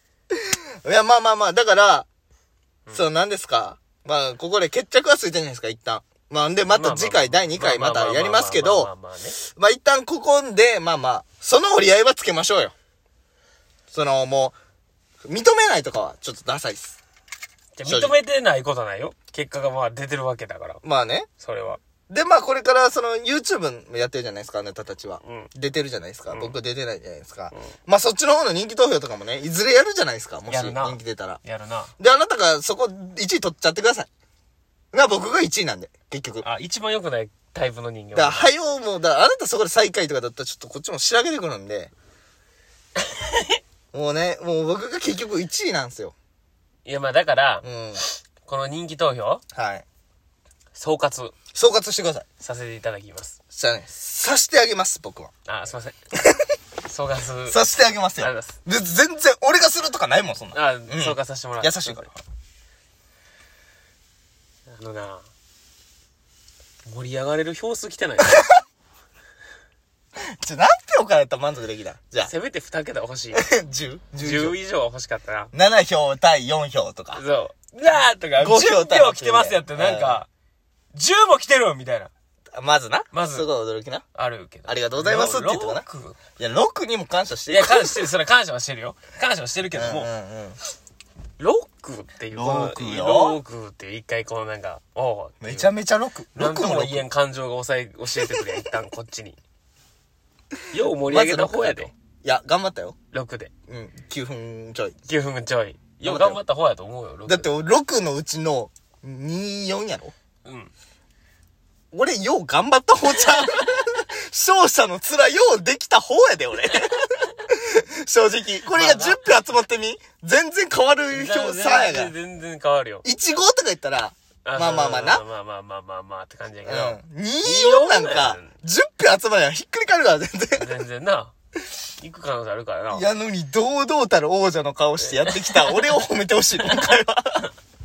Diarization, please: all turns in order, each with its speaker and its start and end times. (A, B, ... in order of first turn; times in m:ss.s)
0:00.4-0:02.0 A
0:02.9-0:08.9 A
0:06.7-0:09.4 B
0:09.4-0:12.7 A
0:13.9-0:14.6 A
0:15.2-0:17.0 A
0:17.8-0:20.8 B
0:17.8-0:18.2 A
0:20.8-0:21.3 A
0:21.4-0:21.8 B
0:22.1-0:31.4 A
0:25.2-0:25.5 B
0:26.3-0:26.6 B
0:30.5-0:31.9 B
0:32.0-0:34.1 A
0:34.9-0:36.4 A
0:36.4-0:38.5 B
0:38.1-0:41.9 A
0:43.2-0:43.5 B
0:43.9-0:46.1 A
0:46.8-0:49.4 B
0:47.6-0:48.0 A
0:49.5-0:49.8 A
0:50.7-0:51.3 B
0:51.5-0:52.3 A
0:52.4-0:53.4 B
0:53.5-0:55.3 A
0:55.5-0:56.0 B
0:56.8-0:57.6 B
0:57.5-1:02.2 A
0:58.2-0:58.6 B
1:00.5-1:02.0 B
1:04.7-1:05.3 B
1:06.8-1:08.5 B
1:10.2-1:12.3 A
1:12.2-1:13.4 B
1:13.3-1:14.6 A
1:14.2-1:15.5 B
1:15.5-1:17.2 A
1:17.1-1:20.3 B
1:18.4-1:20.2 A
1:20.9-1:22.1 B
1:22.5-1:24.0 A
1:23.1-1:23.5 B
1:24.1-1:26.2 B
1:24.6-1:25.8 A
1:26.4-1:28.1 A
1:27.5-1:30.1 B
1:29.7-1:30.6 A
1:31.4-1:35.7 B
1:32.3-1:33.4 A
1:35.4-1:37.0 A
1:36.3-1:39.4 B
1:40.7-1:41.9 B
1:41.0-1:43.0 A
1:43.1-1:43.5 B
1:43.7-1:44.9 A
1:45.0-1:47.5 B
1:46.0-1:46.4 A
1:47.2-1:50.1 A
1:50.4-1:50.7 B
1:51.9-2:02.1 A
1:58.6-1:59.4 B
2:01.1-2:03.0 B
2:03.0-2:05.2 A
2:04.4-2:08.5 B
2:06.6-2:10.7 A
2:10.6-2:11.3 B
2:12.0-2:13.0 B
2:12.9-2:17.5 A
2:15.0-2:15.9 B
2:16.6-2:17.0 B